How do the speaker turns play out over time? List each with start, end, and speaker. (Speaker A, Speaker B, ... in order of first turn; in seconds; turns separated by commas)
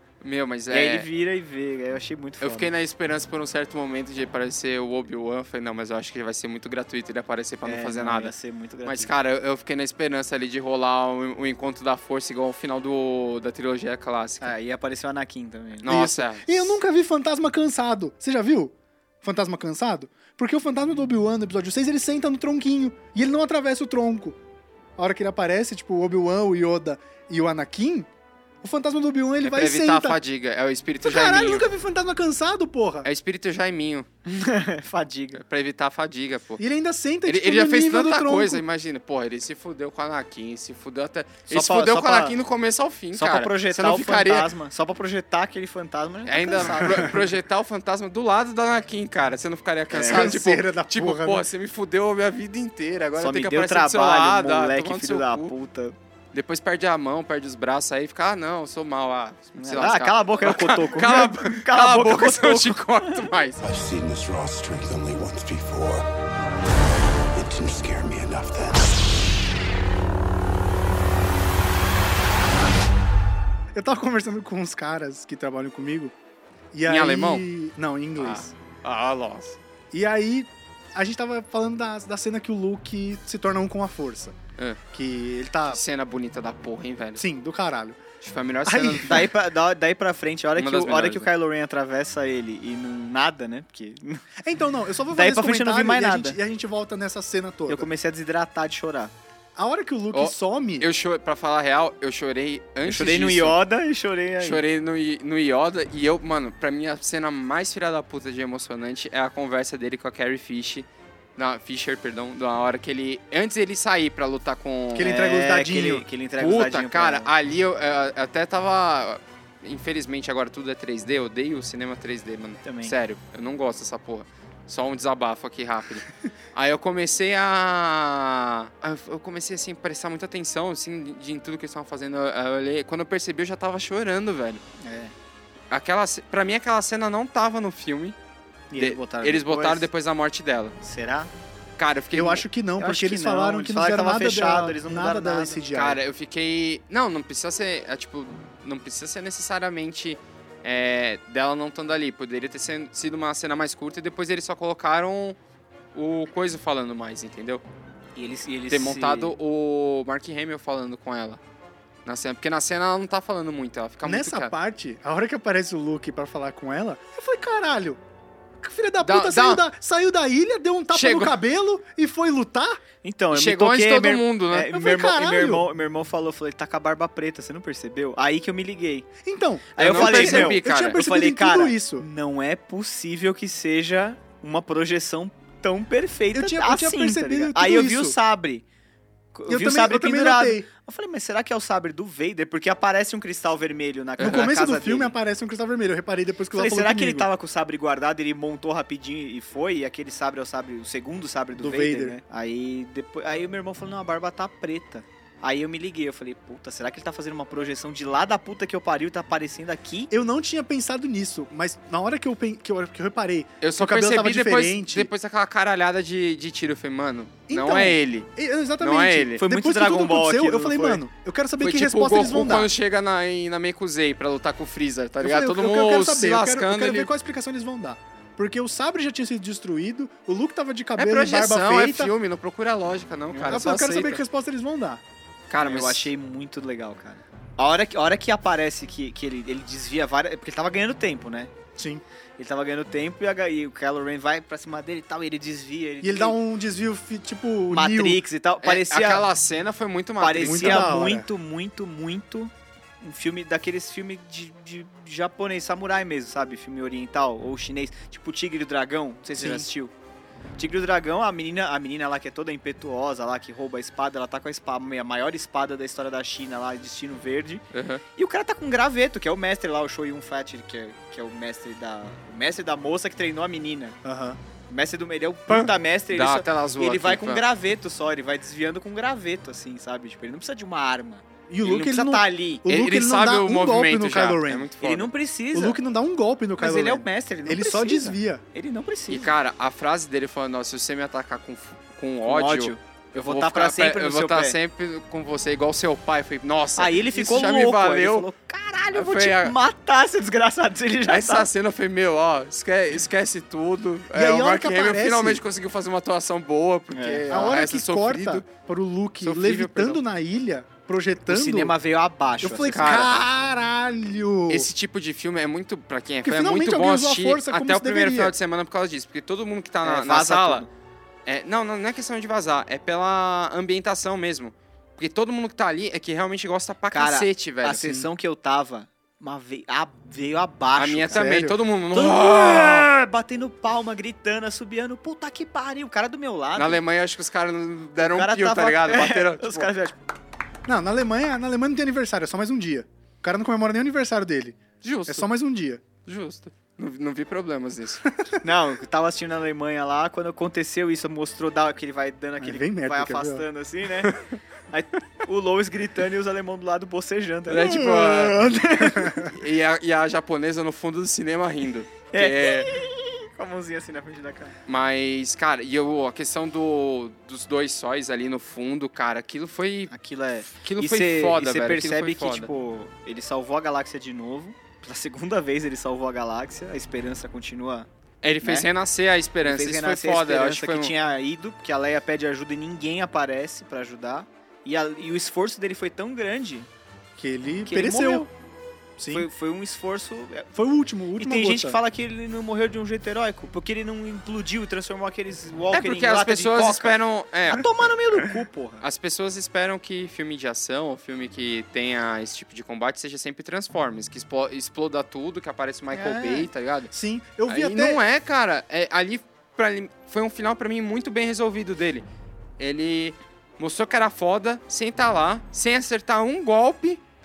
Speaker A: 0.2-1.1, Speaker B: 0.7-2.7, Speaker A: 2.4-8.3, Speaker B: 7.6-9.1, Speaker A: 8.8-14.5, Speaker B: 14.4-15.9, Speaker A: 15.8-16.7, Speaker C: 15.8-24.4, Speaker C: 25.0-28.1, Speaker C: 28.6-30.2, Speaker A: 29.4-31.7, Speaker C: 31.0-33.1, Speaker A: 33.0-34.0, Speaker B: 34.2-35.4, Speaker A: 35.4-36.6, Speaker C: 36.6-38.6, Speaker A: 37.2-44.5, Speaker B: 41.5-42.3, Speaker B: 43.1-47.2, Speaker A: 46.3-55.5, Speaker C: 46.6-47.1, Speaker B: 49.9-50.4, Speaker C: 50.0-51.5, Speaker B: 53.2-56.0, Speaker A: 56.3-63.6, Speaker B: 59.5-63.3, Speaker D: 63.6-66.0, Speaker D: 67.3-68.9, Speaker C: 73.7-76.1, Speaker C: 76.7-78.5, Speaker A: 76.8-77.4, Speaker A: 78.2-79.6, Speaker C: 79.9-84.4, Speaker C: 84.9-85.8, Speaker A: 85.7-87.2, Speaker C: 87.2-88.0, Speaker A: 88.2-89.3, Speaker C: 88.7-89.3, Speaker B: 89.0-94.2, Speaker A: 90.5-91.3, Speaker C: 94.4-97.9, Speaker B: 95.1-96.4, Speaker B: 97.7-99.1, Speaker C: 99.5-100.8, Speaker A: 100.1-103.6, Speaker B: 102.8-104.6, Speaker A: 104.4-115.1, Speaker C: 114.9-116.0, Speaker B: 115.0-117.3, Speaker A: 116.4-134.6, Speaker B: 122.6-122.9, Speaker B: 134.8-135.1, Speaker A: 135.7-138.1, Speaker B: 138.7-139.8, Speaker A: 138.7-140.7, Speaker B: 140.8-141.3, Speaker A: 141.8-142.4, Speaker C: 142.1-146.0, Speaker B: 142.8-145.7, Speaker A: 145.7-155.4, Speaker A: 155.9-157.6, Speaker B: 158.2-159.3, Speaker A: 158.7-161.4, Speaker A: 162.1-164.5, Speaker C: 164.0-168.0, Speaker C: 168.6-172.8, Speaker A: 169.0-169.6, Speaker A: 170.9-171.3, Speaker B: 173.0-179.1, Speaker A: 173.3-174.7, Speaker C: 174.7-175.6, Speaker C: 179.2-182.0, Speaker B: 179.7-188.7, Speaker A: 179.8-181.0, Speaker C: 186.3-188.1, Speaker B: 189.3-195.1, Speaker C: 189.5-190.7, Speaker C: 194.2-197.3, Speaker A: 194.2-194.4, Speaker B: 196.5-210.1, Speaker C: 201.6-202.2, Speaker C: 210.1-215.1, Speaker A: 213.6-218.3, Speaker C: 217.5-222.7, Speaker A: 218.8-219.4, Speaker B: 219.4-221.0, Speaker A: 221.6-227.1, Speaker C: 225.2-232.1, Speaker A: 231.0-234.2, Speaker B: 233.3-233.6, Speaker C: 233.5-235.0, Speaker A: 235.5-236.1, Speaker B: 235.6-241.5, Speaker C: 241.8-242.0, Speaker B: 242.4-246.4, Speaker C: 246.0-248.2, Speaker B: 247.7-249.2, Speaker A: 248.6-250.9, Speaker B: 250.2-259.9, Speaker C: 250.4-251.3, Speaker C: 259.4-259.7, Speaker B: 260.6-267.6, Speaker A: 267.7-268.0, Speaker B: 268.1-274.0, Speaker C: 274.0-274.4, Speaker B: 274.7-282.6, Speaker A: 275.5-277.4, Speaker C: 281.5-284.7, Speaker A: 282.7-285.1, Speaker B: 284.8-285.8, Speaker C: 285.5-288.4, Speaker B: 286.6-289.3, Speaker A: 289.1-298.3, Speaker B: 292.2-294.6, Speaker B: 296.8-301.5, Speaker A: 298.9-299.5, Speaker A: 301.1-308.4, Speaker C: 304.1-305.4, Speaker B: 306.9-307.2, Speaker C: 307.3-311.7, Speaker A: 309.2-310.0, Speaker B: 311.3-313.2, Speaker C: 312.4-314.7, Speaker A: 312.7-313.1, Speaker A: 314.5-320.6, Speaker C: 316.2-318.3, Speaker B: 319.8-320.7, Speaker A: 321.2-327.9, Speaker B: 326.9-331.4, Speaker C: 327.8-328.1, Speaker A: 330.8-332.9, Speaker C: 331.1-331.6, Speaker B: 331.9-336.8, Speaker A: 336.6-339.7, Speaker B: 338.0-340.0, Speaker C: 340.7-345.8, Speaker A: 344.8-345.3, Speaker A: 346.0-348.1, Speaker B: 348.4-354.1, Speaker C: 352.4-353.4, Speaker B: 354.7-359.3, Speaker A: 357.5-358.5, Speaker C: 357.6-358.2, Speaker C: 358.9-359.3, Speaker A: 359.2-362.7, Speaker B: 362.1-364.5, Speaker A: 364.7-369.9, Speaker B: 369.9-377.9, Speaker A: 370.4-372.5, Speaker A: 378.2-380.9, Speaker B: 379.4-386.7, Speaker C: 387.2-388.3, Speaker B: 387.6-388.3, Speaker C: 389.0-389.3, Speaker B: 389.1-390.5, Speaker C: 390.5-391.8, Speaker B: 391.1-397.0, Speaker A: 395.7-397.7, Speaker B: 397.5-398.8, Speaker A: 398.8-406.9, Speaker B: 405.9-406.5, Speaker C: 406.9-408.0, Speaker A: 407.5-412.0, Speaker A: 412.6-417.0